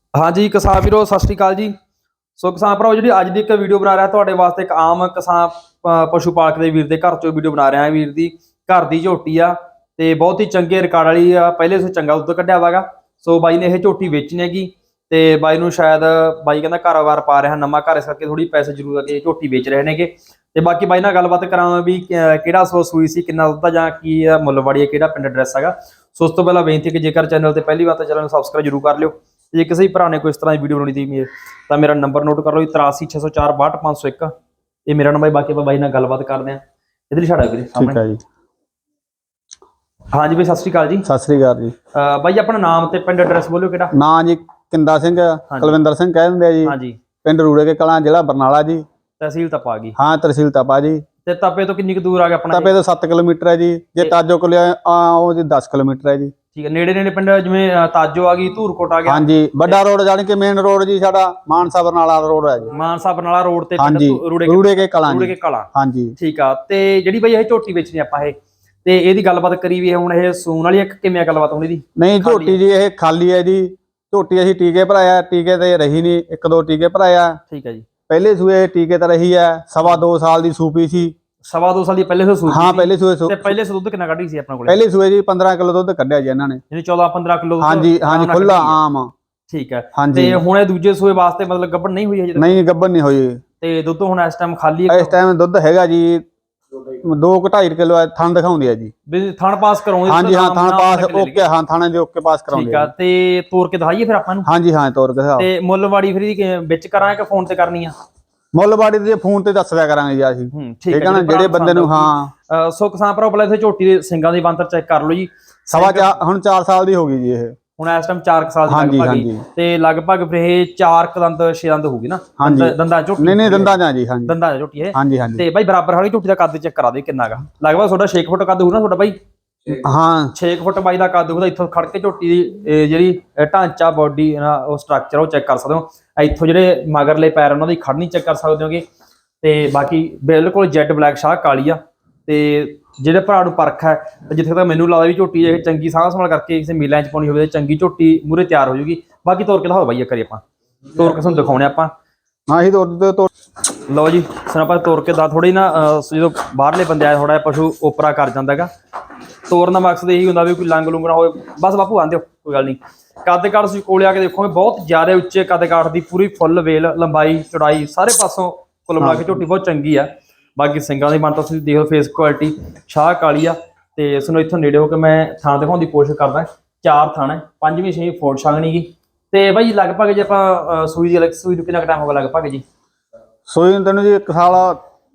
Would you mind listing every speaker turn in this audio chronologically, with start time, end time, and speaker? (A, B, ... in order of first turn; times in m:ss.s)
0:00.1-0:01.7 A
0:02.4-0:34.3 A
0:34.9-0:38.0 A
0:37.8-0:38.2 B
0:40.1-0:41.0 A
0:41.0-0:41.7 B
0:41.9-0:43.9 A
0:43.9-0:48.8 B
0:45.5-0:45.8 A
0:46.6-0:47.0 A
0:49.2-0:49.9 A
0:50.0-0:51.0 B
0:51.2-0:52.7 A
0:52.5-0:56.3 B
0:56.5-0:59.8 A
0:59.0-1:02.7 B
1:02.7-1:12.6 A
1:03.8-1:06.1 B
1:12.0-1:17.4 B
1:17.5-1:17.8 A
1:18.1-1:21.1 B
1:21.4-1:24.8 A
1:22.5-1:23.5 B
1:24.7-1:26.6 B
1:26.7-1:28.8 A
1:27.6-1:29.1 B
1:29.5-1:32.6 A
1:29.9-1:30.4 B
1:32.4-1:33.4 B
1:33.6-1:35.2 A
1:34.9-1:36.2 B
1:36.9-1:38.9 B
1:39.1-1:41.4 A
1:40.0-1:42.9 B
1:42.5-1:44.5 A
1:44.4-1:45.5 B
1:45.4-1:47.9 A
1:48.5-1:52.3 B
1:50.5-1:56.1 A
1:55.7-1:57.6 B
1:57.8-2:09.2 A
1:58.7-1:59.4 B
2:02.4-2:04.4 B
2:04.9-2:05.4 B
2:09.7-2:10.3 B
2:10.3-2:18.8 A
2:19.4-2:30.4 A
2:30.9-2:31.9 A
2:32.5-2:33.3 B
2:33.8-2:38.7 A
2:39.5-3:02.6 A
2:49.0-2:49.4 B
3:03.5-3:04.8 B